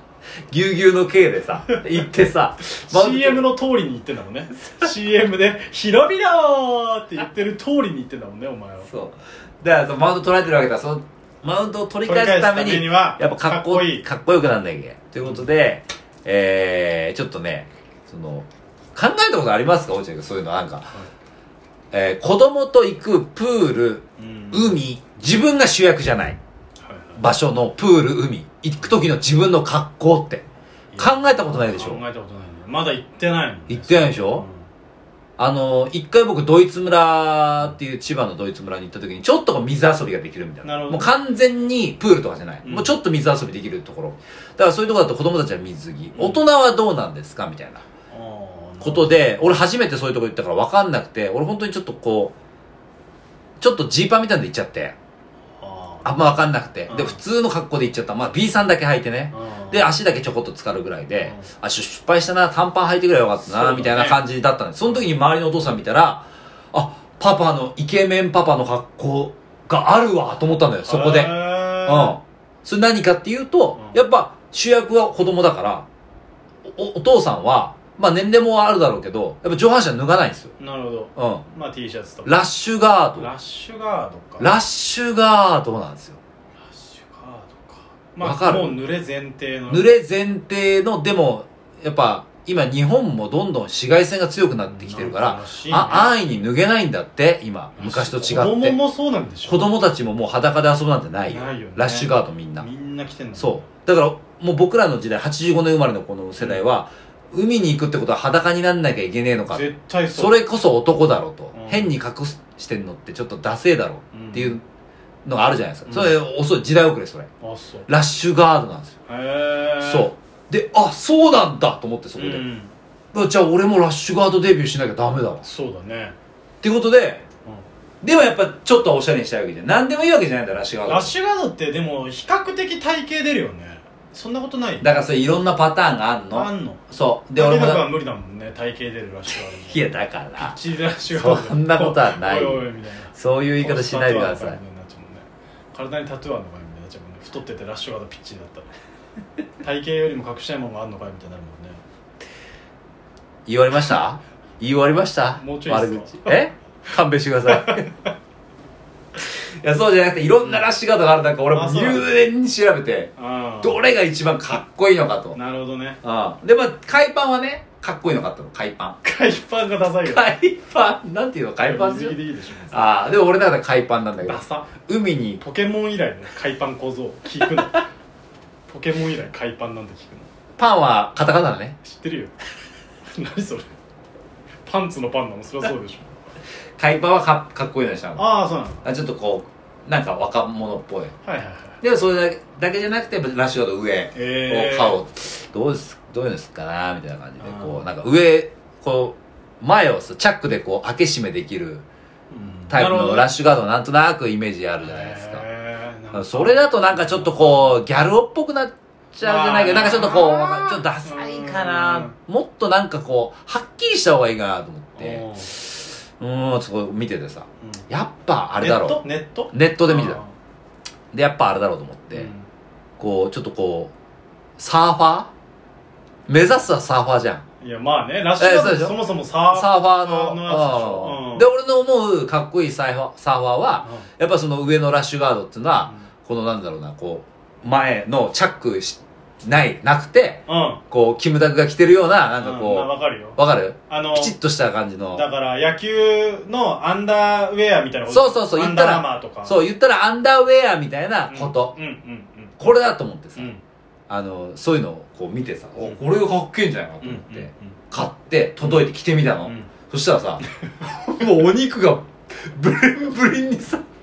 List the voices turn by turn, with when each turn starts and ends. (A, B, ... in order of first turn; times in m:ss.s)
0:00.5-0:03.4 A
0:02.6-0:08.9 B
0:08.8-0:21.0 A
0:12.0-0:14.0 B
0:15.2-0:15.5 B
0:21.9-0:26.4 A
0:24.2-0:24.8 B
0:26.8-0:27.2 B
0:27.2-0:30.4 A
0:30.9-0:34.6 B
0:31.0-0:32.0 A
0:33.7-0:34.4 A
0:35.4-0:47.8 A
0:40.6-0:41.1 B
0:42.6-0:43.0 B
0:46.1-0:46.4 B
0:48.1-0:49.2 B
0:48.8-0:52.3 A
0:53.6-0:54.9 A
0:55.6-0:56.3 B
0:56.0-1:15.8 A
0:56.9-0:57.2 B
0:59.3-0:59.9 B
1:01.2-1:01.5 B
1:03.5-1:04.2 B
1:10.8-1:12.2 B
1:16.6-1:20.5 A
1:20.6-1:22.4 B
1:21.2-1:21.4 A
1:22.2-1:23.3 A
1:23.2-1:24.5 B
1:24.4-1:26.2 A
1:26.6-1:29.9 B
1:28.2-1:28.8 A
1:29.7-1:38.8 A
1:34.6-1:36.1 B
1:37.8-1:39.7 B
1:39.4-1:42.6 A
1:41.3-1:43.6 B
1:43.4-1:54.6 A
1:49.5-1:50.4 B
1:51.5-1:51.9 B
1:54.1-1:54.6 B
1:55.2-1:57.3 A
1:55.8-1:56.2 B
1:57.4-1:57.9 B
1:57.9-1:58.9 A
1:59.1-2:00.1 B
1:59.8-2:02.4 A
2:02.2-2:02.7 B
2:03.1-2:05.4 A
2:05.4-2:06.1 B
2:06.6-2:07.2 A
2:08.0-2:11.1 A
2:10.8-2:14.9 B
2:14.8-2:17.8 A
2:16.3-2:19.8 B
2:19.3-2:20.6 A
2:20.4-2:28.7 B
2:21.1-2:24.6 A
2:29.6-2:31.8 B
2:33.4-2:37.9 A
2:35.4-2:36.4 B
2:37.5-2:38.1 B
2:39.2-2:45.4 A
2:41.5-2:42.1 B
2:43.2-2:43.8 B
2:45.3-2:46.0 B
2:46.0-2:49.0 A
2:49.0-2:50.3 B
2:50.0-2:52.2 A
2:51.6-2:53.0 B
2:52.7-2:55.4 A
2:54.2-2:54.7 B
2:55.4-2:57.8 B
2:58.7-3:00.3 B
3:00.6-3:01.8 A
3:01.8-3:02.3 B
3:03.1-3:03.7 B
3:04.6-3:06.2 B
3:06.8-3:08.3 A
3:08.2-3:08.8 B
3:08.8-3:11.1 A
3:11.2-3:11.8 B
3:11.8-3:21.8 A
3:14.1-3:15.0 B
3:17.4-3:17.8 B
3:22.3-3:23.3 B
3:22.7-3:25.4 A
3:24.8-3:27.7 B
3:26.1-3:40.2 A
3:29.2-3:32.1 B
3:34.9-3:35.5 B
3:38.6-3:40.3 B
3:41.1-3:42.3 A
3:42.1-3:42.5 B
3:43.0-3:43.9 A
3:44.6-3:45.3 A
3:46.3-3:47.4 A
3:47.6-3:51.5 B
3:48.4-3:49.0 A
3:49.5-4:05.2 A
4:00.5-4:00.8 B
4:02.4-4:04.3 B
4:05.1-4:09.6 B
4:08.1-4:11.8 A
4:11.3-4:12.5 B
4:12.6-4:13.5 A
4:13.4-4:13.6 B
4:14.1-4:23.8 A
4:17.0-4:17.8 B
4:19.4-4:19.7 B